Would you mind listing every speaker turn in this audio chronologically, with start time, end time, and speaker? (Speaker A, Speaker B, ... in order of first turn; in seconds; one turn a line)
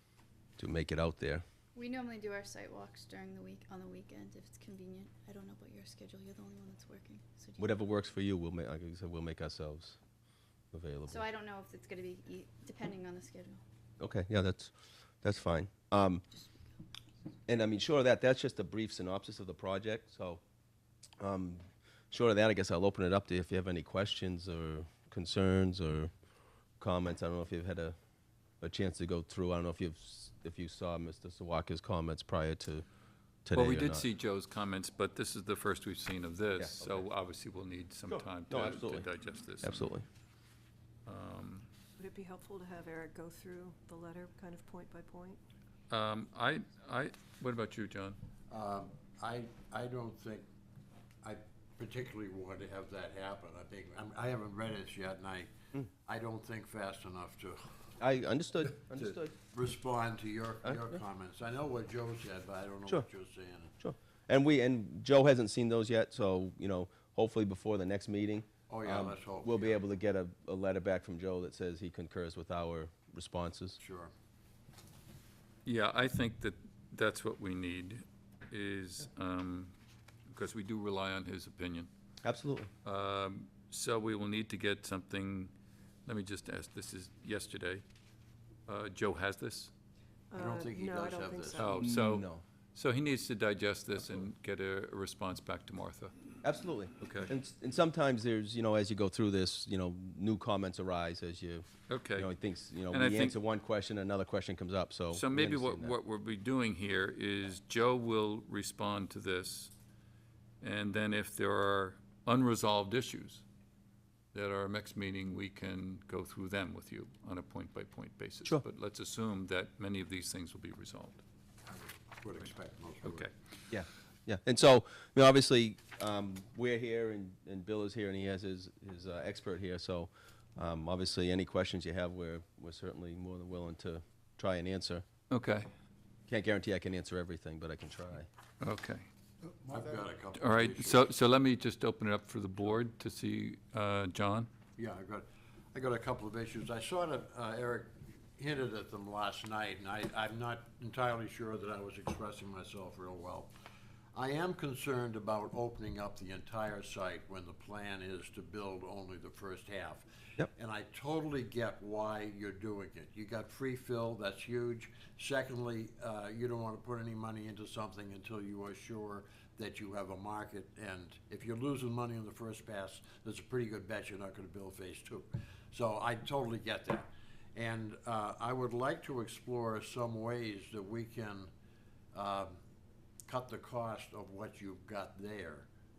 Speaker A: 0.6-1.4
Speaker B: 1.8-7.8
Speaker A: 7.6-10.0
Speaker A: 10.7-11.2
Speaker B: 11.1-13.6
Speaker A: 14.0-16.2
Speaker A: 17.5-20.4
Speaker A: 21.2-26.1
Speaker A: 26.8-28.0
Speaker A: 28.6-32.9
Speaker A: 33.5-34.1
Speaker C: 33.5-39.9
Speaker A: 36.6-37.0
Speaker A: 38.1-39.1
Speaker A: 39.6-40.0
Speaker C: 41.1-41.7
Speaker D: 42.0-45.4
Speaker C: 45.9-48.2
Speaker E: 48.5-50.5
Speaker E: 51.2-55.5
Speaker E: 56.0-57.6
Speaker A: 58.0-59.3
Speaker E: 58.9-63.7
Speaker A: 60.6-61.0
Speaker A: 63.8-73.8
Speaker E: 68.7-69.8
Speaker E: 73.8-74.1
Speaker C: 75.7-79.8
Speaker C: 80.3-81.9
Speaker A: 82.2-82.7
Speaker C: 82.8-85.5
Speaker C: 86.1-87.8
Speaker C: 88.7-89.7
Speaker D: 90.3-91.9
Speaker E: 90.3-91.7
Speaker C: 91.6-96.1
Speaker A: 91.8-92.4
Speaker A: 96.4-106.0
Speaker C: 97.0-97.3
Speaker C: 101.9-102.3
Speaker C: 102.9-103.4
Speaker C: 105.1-109.7
Speaker C: 110.6-113.4
Speaker C: 114.3-121.2
Speaker E: 121.7-123.3
Speaker A: 123.7-135.1
Speaker C: 135.3-135.7
Speaker A: 136.3-138.3
Speaker C: 138.6-139.1
Speaker E: 139.7-141.1
Speaker C: 140.3-144.5
Speaker E: 144.8-153.5
Speaker E: 154.1-181.5
Speaker E: 182.1-182.6
Speaker E: 183.3-185.7